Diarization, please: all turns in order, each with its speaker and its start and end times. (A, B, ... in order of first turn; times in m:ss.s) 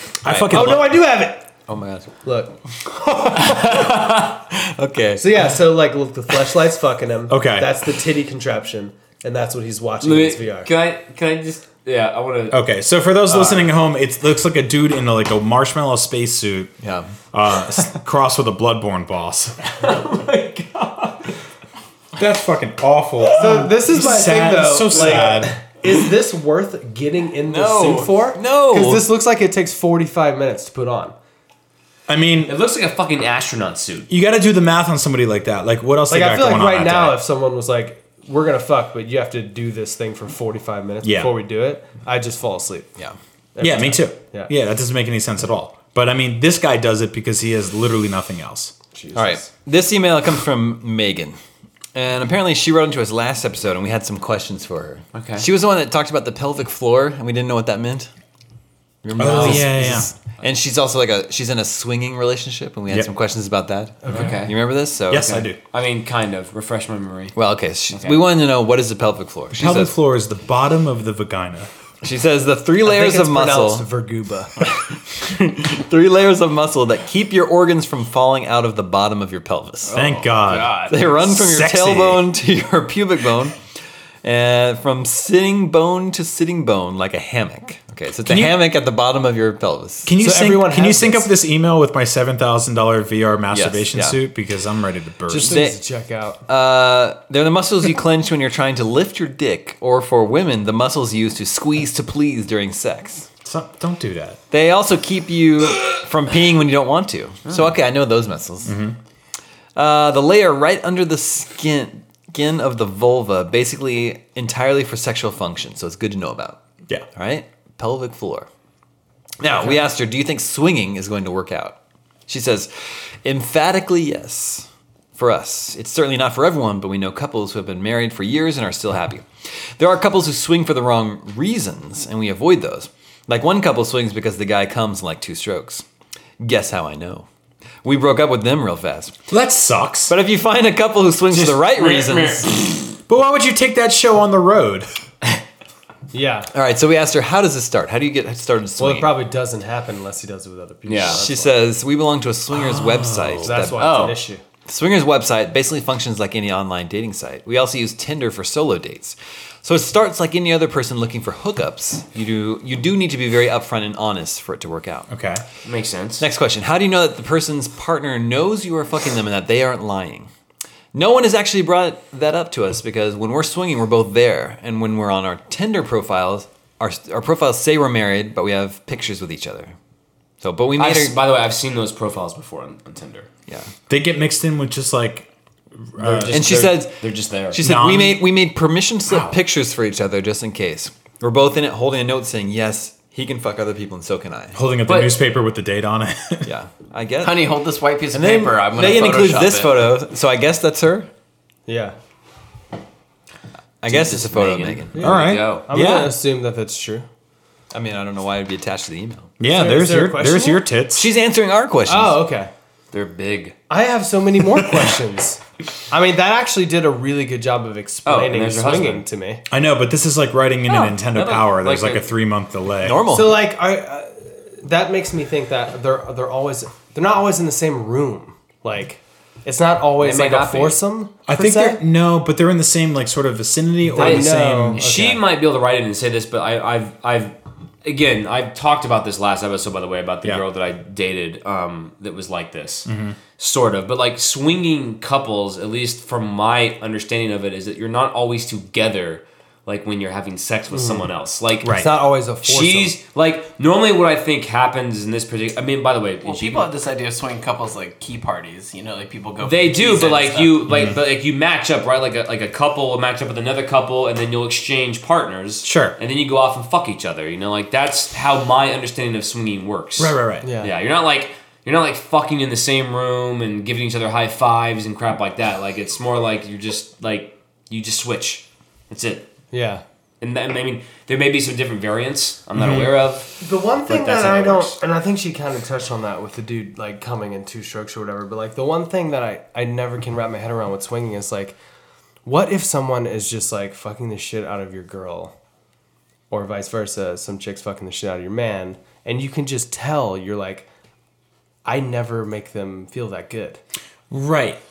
0:00.2-0:00.9 A
0:00.3-0:00.9 B
0:00.5-0:01.5 C
0:01.7-0:02.1 B
0:02.2-0:02.6 C
0:03.1-0:05.3 B
0:03.4-0:04.2 D
0:05.2-0:10.7 C
0:07.3-0:07.7 A
0:10.0-0:12.6 D
0:12.5-0:16.8 A
0:13.3-0:13.7 C
0:16.8-0:17.1 B
0:17.3-0:19.6 A
0:19.7-0:21.4 D
0:22.2-0:25.6 A
0:23.3-0:31.2 C
0:27.4-0:29.1 B
0:32.1-0:32.6 A
0:32.4-0:34.1 D
0:34.1-0:37.2 A
0:36.1-0:43.0 C
0:41.0-0:41.3 A
0:43.6-0:44.5 C
0:43.6-0:48.7 A
0:48.9-0:49.5 C
0:49.1-0:51.4 B
0:51.9-0:58.1 B
0:55.1-0:55.4 D
0:59.0-1:05.4 B
0:59.2-1:00.1 A
1:04.0-1:04.4 C
1:04.1-1:04.5 D
1:05.1-1:05.6 A
1:05.1-1:07.4 D
1:07.4-1:09.9 B
1:07.9-1:08.2 D
1:09.5-1:11.7 A
1:12.0-1:13.9 B
1:12.8-1:14.6 C
1:14.7-1:20.0 B
1:19.9-1:22.2 A
1:20.1-1:20.9 E
1:20.5-1:20.8 D
1:20.8-1:23.6 B
1:24.2-1:30.1 B
1:28.3-1:28.6 A
1:30.0-1:35.6 A
1:30.2-1:31.3 C
1:33.5-1:34.2 B
1:35.3-1:36.4 C
1:35.4-1:35.8 B
1:36.5-1:43.3 B
1:43.4-1:44.4 A
1:44.5-1:48.8 B
1:48.6-1:49.0 A
1:49.8-1:56.6 B
1:57.2-1:58.5 B
1:59.4-2:02.7 B
2:03.2-2:15.8 B
2:16.4-2:17.3 B
2:17.8-2:19.2 B
2:19.3-2:20.1 A
2:20.1-2:22.6 B
2:21.3-2:22.8 D
2:23.1-2:24.9 A
2:26.1-2:26.5 C
2:26.5-2:29.1 B
2:28.8-2:31.6 C
2:30.9-2:31.2 D
2:31.0-2:45.1 B
2:33.3-2:34.4 C
2:33.8-2:34.2 E
2:45.1-2:45.4 A
2:45.6-2:46.2 D
2:46.2-2:50.3 B
2:50.9-2:59.8 B
3:00.4-3:01.2 B
3:00.8-3:03.3 D
3:03.9-3:05.3 A
3:05.8-3:06.6 A
3:06.0-3:07.6 D
3:06.3-3:14.6 B
3:07.6-3:08.2 A
3:09.1-3:09.3 A
3:14.5-3:16.5 A
3:14.9-3:15.2 D
3:16.4-3:17.5 B
3:17.2-3:19.8 E
3:18.1-3:21.1 B
3:21.7-3:22.0 C
3:23.8-3:25.2 B
3:23.9-3:25.7 D
3:24.9-3:27.1 C
3:25.0-3:26.2 A
3:27.7-3:29.4 B
3:29.4-3:31.1 A
3:29.4-3:30.7 C
3:30.9-3:32.2 B
3:31.9-3:32.5 C
3:32.9-3:33.6 D
3:33.7-3:39.4 C
3:38.0-3:39.0 D
3:39.5-3:43.0 A
3:40.7-3:42.1 D
3:42.8-3:43.4 B
3:43.1-3:51.8 C
3:50.0-3:50.8 D
3:51.3-3:54.8 A
3:53.9-3:55.2 C
3:54.0-4:11.8 D
4:02.9-4:03.2 A
4:10.7-4:11.1 C
4:11.7-4:13.0 C
4:12.4-4:16.7 D
4:16.2-4:20.6 E
4:19.4-4:39.3 D
4:20.7-4:21.0 A
4:25.6-4:26.0 A
4:30.0-4:30.5 A
4:30.4-4:30.7 C
4:39.5-4:39.8 C
4:40.2-4:44.8 D
4:42.6-4:43.0 A
4:43.4-4:51.6 C
4:52.2-4:55.3 C
4:56.3-5:00.7 C
5:01.6-5:03.6 C
5:04.1-5:04.6 A